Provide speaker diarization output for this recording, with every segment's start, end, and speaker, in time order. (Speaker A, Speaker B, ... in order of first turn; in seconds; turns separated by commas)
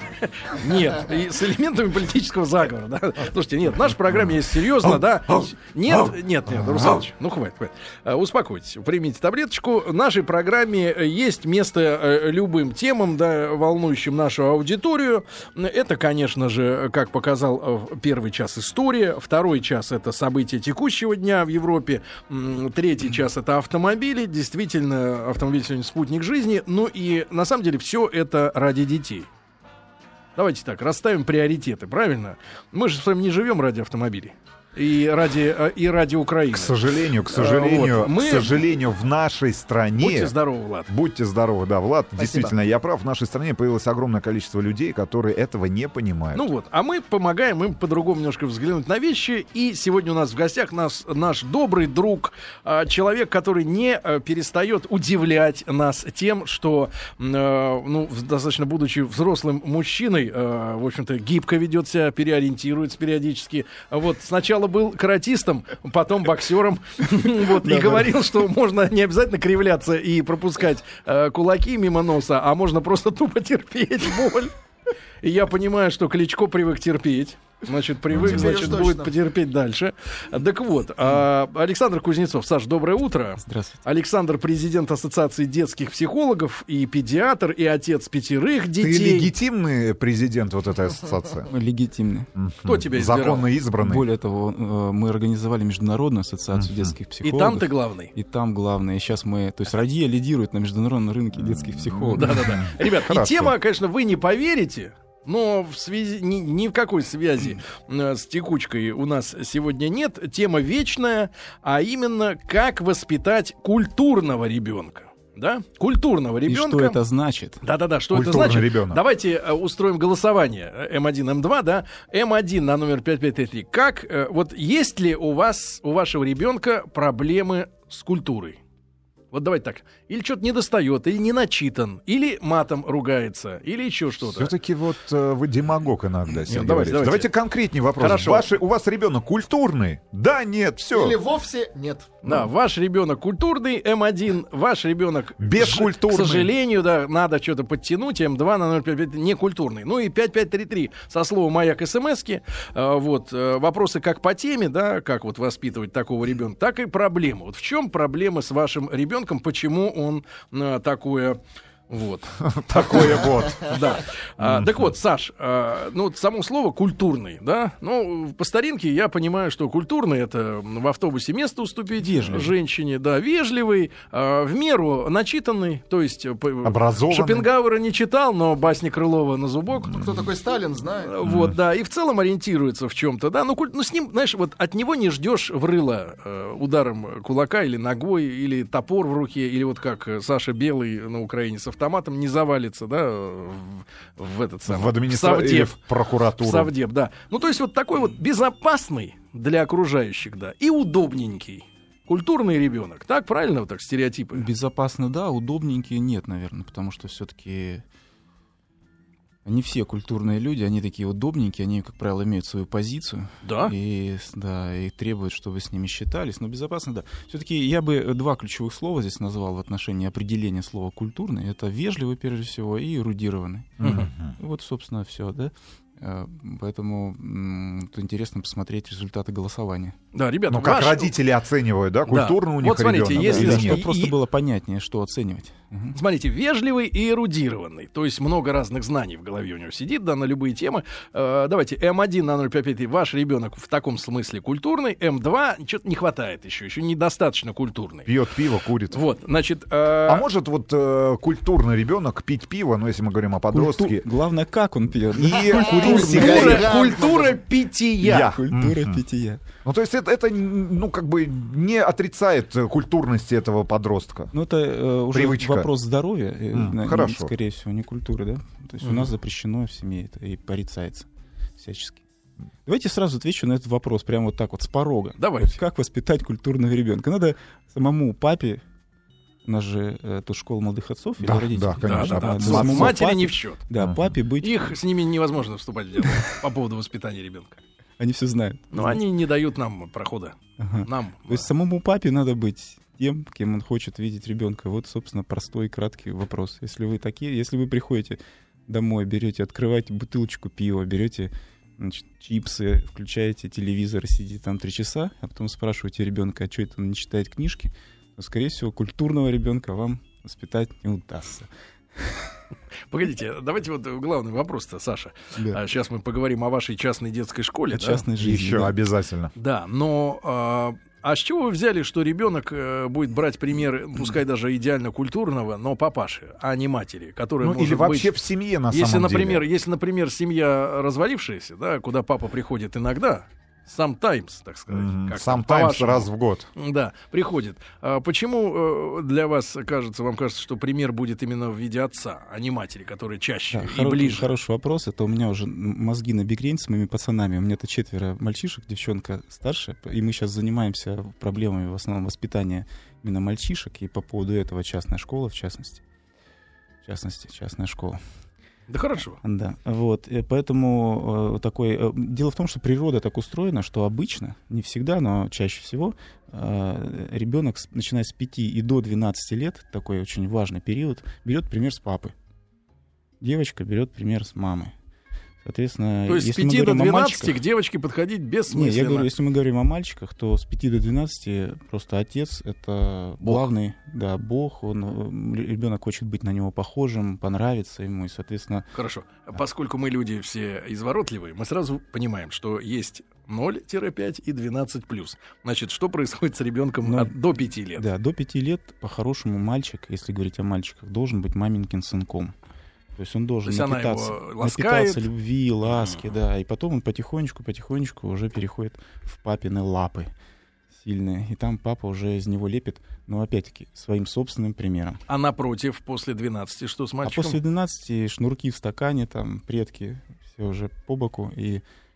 Speaker A: 0.2-29.3, Speaker B: 6.6-7.0, Speaker A: 30.4-38.6, Speaker B: 36.5-40.3, Speaker A: 40.0-40.9, Speaker B: 40.9-46.5, Speaker C: 42.1-42.5, Speaker A: 46.3-74.5, Speaker D: 67.6-68.1, Speaker A: 75.2-89.3, Speaker B: 78.1-78.8, Speaker C: 78.2-79.1, Speaker D: 83.4-83.8, Speaker B: 88.8-91.5, Speaker D: 91.5-92.3, Speaker B: 92.3-94.1, Speaker A: 92.6-93.5, Speaker D: 93.8-102.6, Speaker B: 96.5-96.9, Speaker A: 97.2-98.1, Speaker B: 101.4-103.5, Speaker A: 102.1-117.0, Speaker D: 116.5-117.6, Speaker A: 117.6-128.6, Speaker B: 118.1-119.0, Speaker A: 129.3-134.5, Speaker B: 134.2-141.2, Speaker A: 136.4-137.3, Speaker A: 138.0-138.5, Speaker C: 140.9-142.2, Speaker A: 142.2-180.0, Speaker B: 145.4-146.5, Speaker B: 162.4-163.8, Speaker B: 164.4-164.9, Speaker D: 172.0-172.5, Speaker B: 176.6-177.4, Speaker C: 179.9-181.1, Speaker A: 181.0-195.8, Speaker B: 181.2-181.5, Speaker B: 194.7-196.7, Speaker A: 196.4-204.5, Speaker D: 204.3-207.8, Speaker D: 209.4-229.9, Speaker A: 213.4-213.7, Speaker B: 223.8-224.3, Speaker A: 223.8-224.1, Speaker A: 230.1-231.1, Speaker B: 230.5-233.8, Speaker A: 232.1-234.1, Speaker D: 233.1-235.9, Speaker A: 235.9-248.1, Speaker B: 248.1-249.0, Speaker A: 248.9-250.3, Speaker B: 250.1-254.0, Speaker D: 253.5-256.7, Speaker B: 255.1-256.7, Speaker C: 255.3-257.4, Speaker A: 255.7-258.3, Speaker B: 258.0-259.0, Speaker D: 258.1-259.4, Speaker B: 259.6-264.3, Speaker D: 264.3-272.0, Speaker B: 265.1-265.7, Speaker B: 266.5-267.3, Speaker D: 272.6-278.6, Speaker A: 275.2-275.5, Speaker D: 279.4-284.7, Speaker B: 281.2-283.0, Speaker A: 281.8-283.6, Speaker B: 283.8-284.1, Speaker A: 284.4-287.6, Speaker D: 288.0-289.0, Speaker A: 288.7-291.4, Speaker D: 290.6-312.4, Speaker A: 312.9-318.0, Speaker D: 315.3-315.6, Speaker D: 317.7-318.8, Speaker B: 318.2-319.3, Speaker A: 319.3-328.1, Speaker B: 327.4-329.4, Speaker A: 328.7-344.3, Speaker B: 334.7-336.5, Speaker D: 343.5-355.8, Speaker D: 356.8-358.0, Speaker A: 358.7-359.2, Speaker D: 359.2-372.1, Speaker D: 373.2-374.7, Speaker D: 375.4-377.4, Speaker A: 376.1-379.1, Speaker D: 378.5-388.6, Speaker A: 383.2-383.5, Speaker A: 388.7-397.9, Speaker D: 396.8-397.1, Speaker D: 397.8-402.3, Speaker D: 402.9-410.1, Speaker A: 403.4-405.1, Speaker A: 405.7-406.0, Speaker D: 410.7-415.0, Speaker A: 415.1-417.4, Speaker D: 417.0-421.6